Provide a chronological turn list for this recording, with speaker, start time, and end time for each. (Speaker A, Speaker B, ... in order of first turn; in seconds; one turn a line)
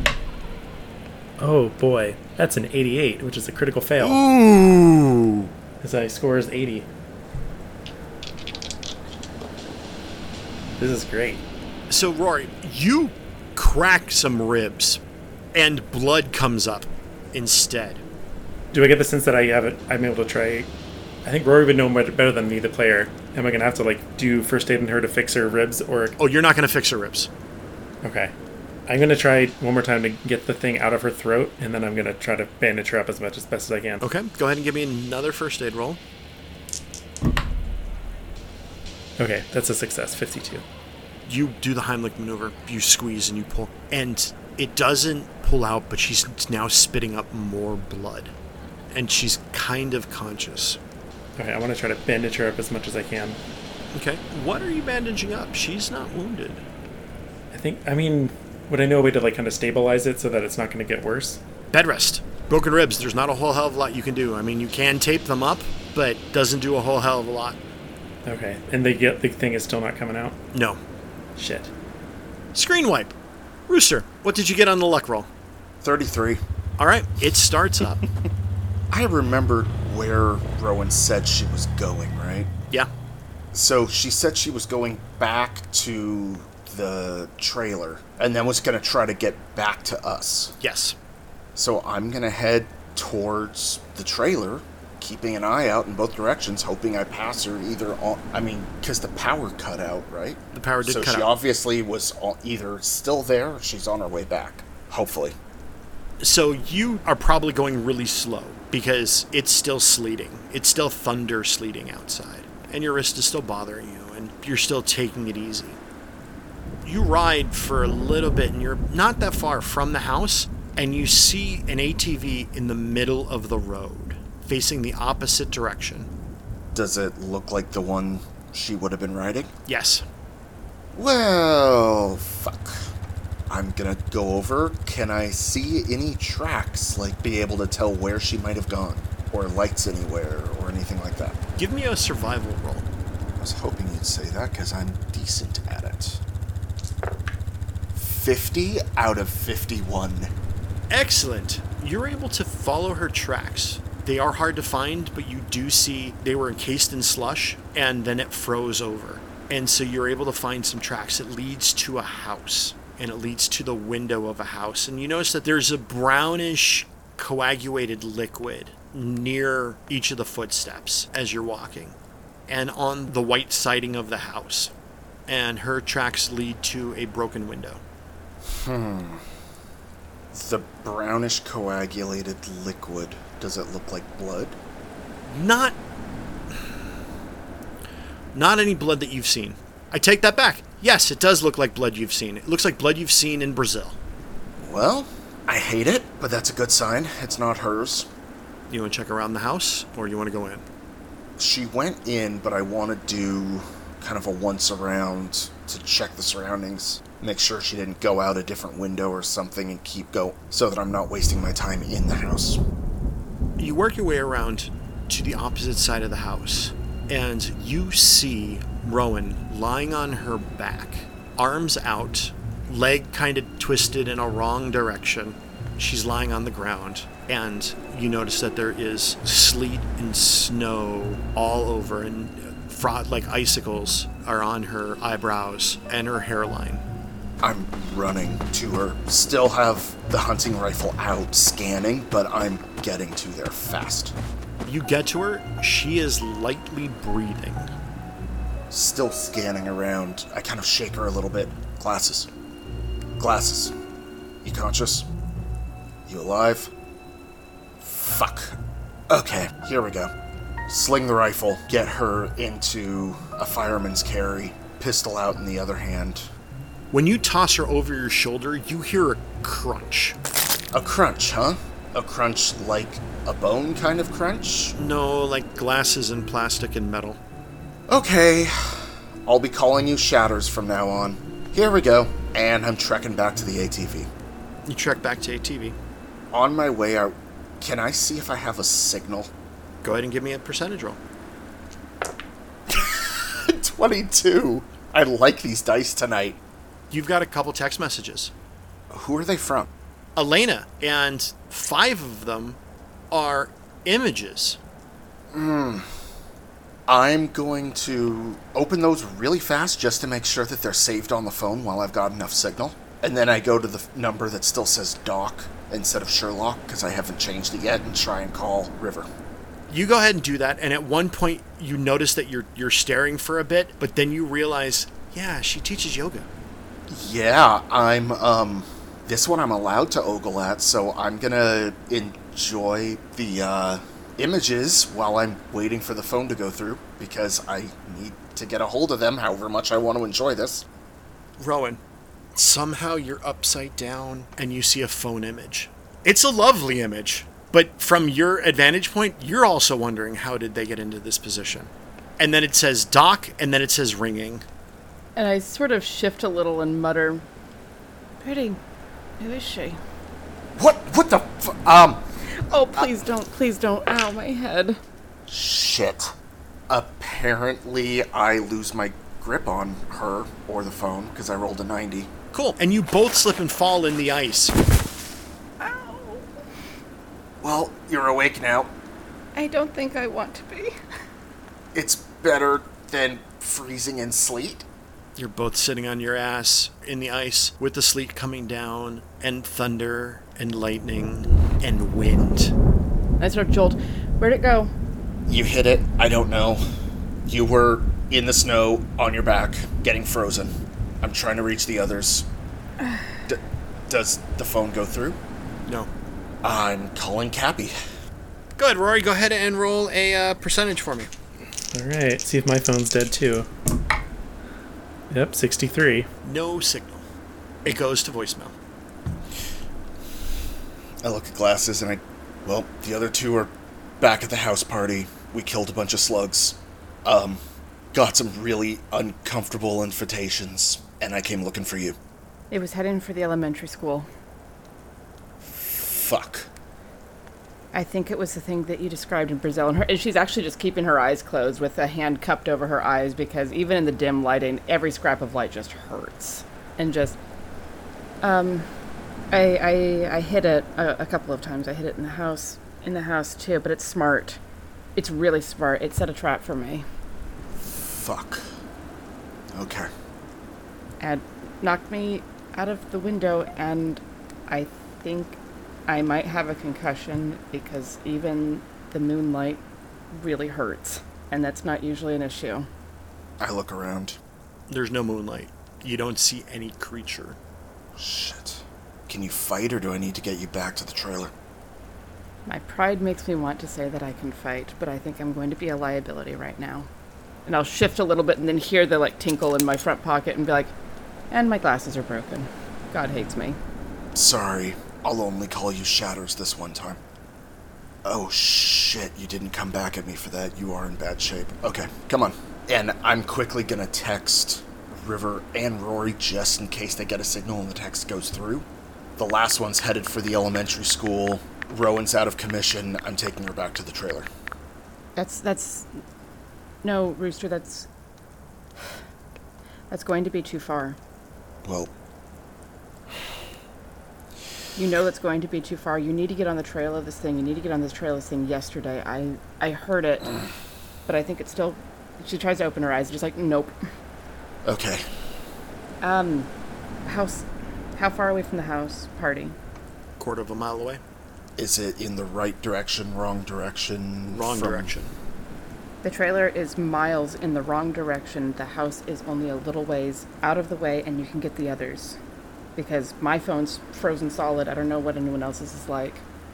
Speaker A: 1.4-4.2
Speaker B: 4.0-5.5
Speaker A: 5.8-6.9
Speaker A: 10.8-11.4
Speaker B: 11.9-15.0
Speaker B: 15.5-18.0
Speaker A: 18.7-20.7
Speaker A: 21.2-26.2
Speaker B: 26.2-27.3
Speaker A: 28.0-28.3
Speaker A: 28.9-34.0
Speaker B: 34.0-36.0
Speaker A: 39.2-40.6
Speaker B: 41.3-48.3
Speaker B: 48.9-50.8
Speaker A: 51.4-53.4
Speaker B: 53.9-56.6
Speaker A: 57.5-61.4
Speaker B: 61.7-67.6
Speaker A: 68.2-70.4
Speaker B: 70.5-70.8
Speaker A: 71.4-71.7
Speaker B: 72.5-73.1
Speaker B: 73.7-75.3
Speaker C: 75.8-76.4
Speaker B: 76.8-78.0
Speaker C: 78.9-82.5
Speaker C: 83.5-90.5
Speaker B: 90.6-91.0
Speaker C: 91.5-105.4
Speaker B: 100.5-101.3
Speaker B: 106.2-115.8
Speaker B: 116.8-126.1
Speaker C: 126.7-129.5
Speaker B: 129.7-130.0
Speaker C: 130.9-132.9
Speaker C: 133.5-141.4
Speaker B: 141.6-142.9
Speaker C: 143.4-146.2
Speaker C: 147.9-150.3
Speaker B: 150.9-172.0
Speaker B: 172.5-174.7
Speaker B: 175.3-177.8
Speaker C: 178.4-179.2
Speaker C: 180.3-184.6
Speaker B: 185.3-185.8
Speaker B: 188.3-194.0
Speaker C: 194.6-198.1
Speaker B: 198.7-200.7
Speaker C: 201.4-212.6
Speaker B: 213.6-236.8
Speaker C: 237.4-244.2
Speaker B: 244.7-247.7
Speaker C: 248.7-252.3
Speaker C: 253.2-253.7
Speaker C: 254.4-255.1
Speaker C: 256.1-256.7
Speaker C: 257.8-258.6
Speaker C: 259.1-260.1
Speaker C: 260.7-266.3
Speaker B: 266.9-270.2
Speaker C: 270.7-274.8
Speaker B: 274.8-277.2
Speaker C: 277.9-284.1
Speaker B: 284.7-285.8
Speaker C: 286.3-289.3
Speaker B: 289.8-291.0
Speaker C: 292.7-296.4
Speaker B: 296.9-298.3
Speaker C: 298.9-299.7
Speaker B: 300.2-302.6
Speaker B: 303.1-304.6
Speaker C: 305.3-305.9
Speaker C: 306.9-319.1
Speaker B: 319.7-326.3
Speaker C: 326.9-340.7
Speaker B: 341.4-341.8
Speaker B: 342.4-354.4
Speaker D: 355.2-357.2
Speaker D: 358.2-358.6
Speaker D: 359.2-359.8
Speaker C: 360.6-362.0
Speaker D: 362.3-364.8
Speaker C: 365.3-366.1
Speaker C: 366.7-372.1
Speaker B: 372.3-374.5
Speaker D: 375.6-376.3
Speaker C: 377.4-378.7
Speaker D: 379.4-380.7
Speaker C: 381.7-384.7
Speaker B: 385.2-392.5
Speaker D: 393.2-394.7
Speaker C: 395.3-396.6
Speaker C: 397.3-402.3
Speaker C: 403.3-405.2
Speaker C: 406.4-407.8
Speaker B: 408.6-411.1
Speaker A: 411.7-413.5
Speaker A: 415.1-416.1
Speaker B: 416.2-417.1
Speaker B: 417.6-418.6
Speaker C: 421.0-427.4
Speaker C: 427.9-432.0
Speaker D: 432.5-434.1
Speaker C: 435.4-436.5
Speaker D: 437.7-447.2
Speaker D: 448.2-448.7
Speaker D: 449.3-454.4
Speaker D: 455.0-456.9
Speaker C: 457.6-458.5
Speaker C: 459.5-459.9
Speaker D: 461.0-472.7
Speaker C: 473.4-474.2
Speaker B: 474.7-477.4
Speaker C: 478.0-481.3
Speaker D: 482.5-486.9
Speaker D: 487.5-490.7
Speaker D: 491.3-493.6
Speaker C: 494.1-497.0
Speaker C: 498.1-514.3
Speaker D: 515.2-515.9
Speaker D: 516.8-517.9
Speaker D: 519.9-521.0
Speaker C: 521.6-521.9
Speaker D: 524.8-530.4
Speaker D: 531.1-533.8
Speaker C: 534.6-535.0
Speaker D: 536.0-536.5
Speaker D: 537.0-539.6
Speaker B: 540.2-541.0
Speaker C: 541.6-544.9
Speaker B: 544.3-545.1
Speaker D: 546.0-552.2
Speaker D: 552.8-556.2